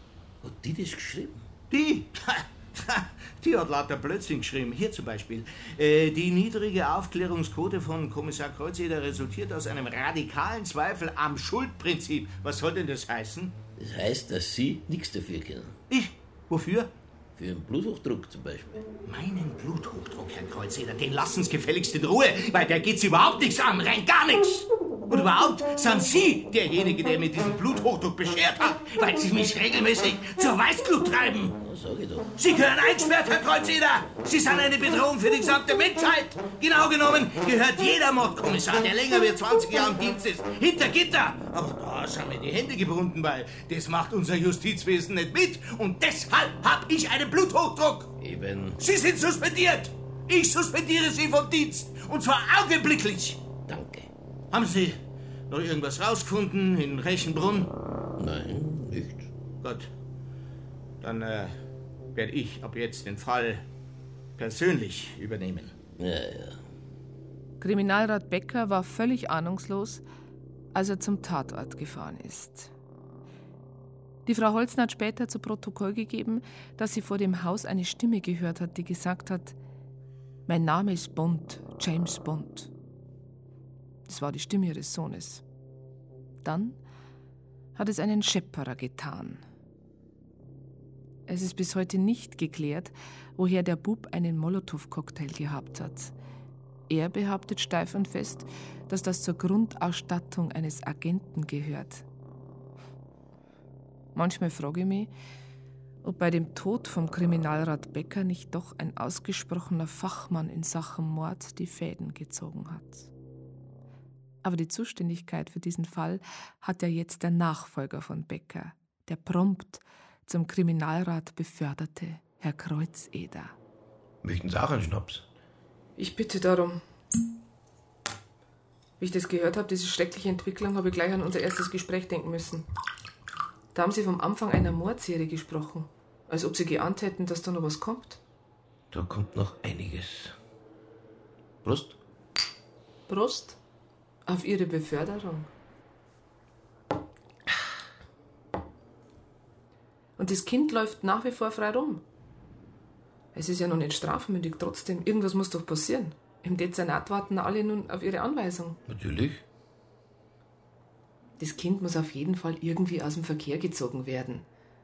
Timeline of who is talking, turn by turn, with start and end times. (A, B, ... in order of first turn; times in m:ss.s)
0:00.4-0:01.5 A
0:01.7-0:13.6 B
0:13.8-0:15.8 A
0:15.9-0:16.9 B
0:17.4-0:18.8 A
0:19.0-0:31.6 B
0:31.6-0:32.3 A
0:32.4-0:48.1 B
0:48.2-0:48.8 A
0:48.8-0:53.4 B
0:53.7-0:54.1 A
0:54.5-0:55.0 B
0:55.5-0:57.7 B
0:58.2-0:59.3 A
0:59.6-0:59.9 B
1:01.0-1:01.6 B
1:02.1-1:03.6 B
1:04.4-1:05.7 B
1:06.0-1:06.6 A
1:07.6-1:10.0 C
1:10.7-1:12.7 C
1:14.2-1:19.6 C
1:20.5-1:22.7 C
1:24.1-1:25.4 C
1:26.4-1:26.8 C
1:27.8-1:29.4 C
1:31.3-1:36.1 C
1:36.9-1:42.0 C
1:44.1-1:45.1 C
1:46.0-1:53.1 C
1:54.4-2:03.6 C
2:04.2-2:05.2 A
2:06.0-2:06.8 C
2:09.0-2:12.6 C
2:13.7-2:18.2 C
2:18.9-2:20.3 A
2:21.6-2:22.0 A
2:23.1-2:23.6 C
2:24.3-2:25.5 C
2:30.2-2:32.0 C
2:33.3-2:38.8 C
2:38.9-2:39.4 A
2:41.4-2:44.4 C